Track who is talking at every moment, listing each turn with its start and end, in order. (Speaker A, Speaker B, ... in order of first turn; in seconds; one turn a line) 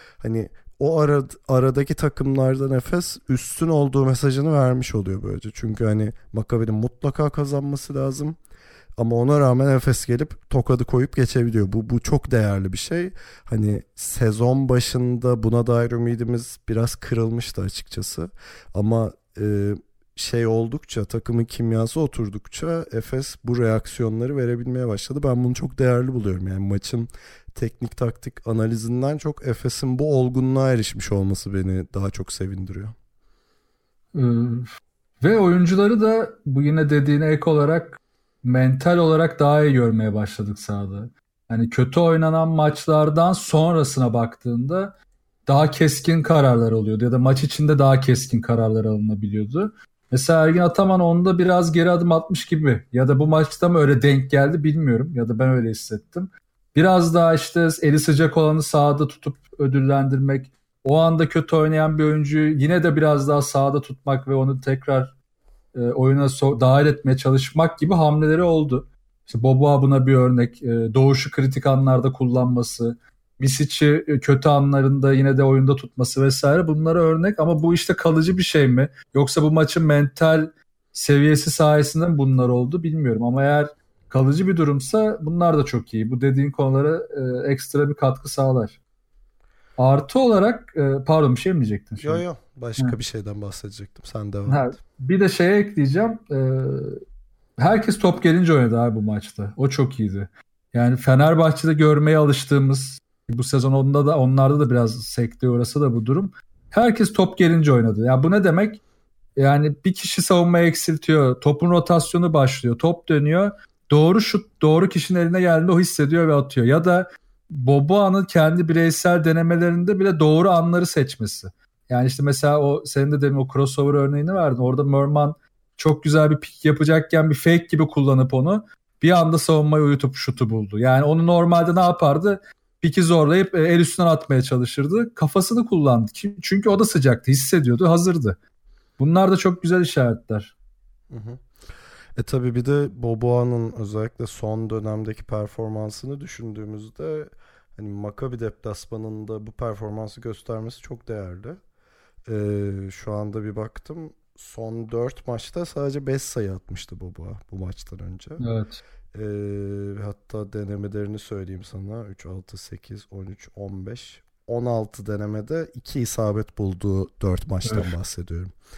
Speaker A: 0.2-8.4
Speaker A: 9.0-32.9
Speaker B: 34.1-44.9
Speaker B: 45.5-65.1
Speaker B: 65.7-88.8
Speaker B: 89.8-92.2
Speaker A: 92.0-94.8
Speaker B: 94.5-97.0
Speaker B: 97.6-108.8
Speaker B: 109.3-138.4
Speaker B: 139.0-140.5
Speaker A: 141.1-141.4
Speaker A: 142.2-151.6
Speaker A: 152.2-158.4
Speaker B: 158.4-158.8
Speaker A: 159.1-168.5
Speaker B: 167.6-167.9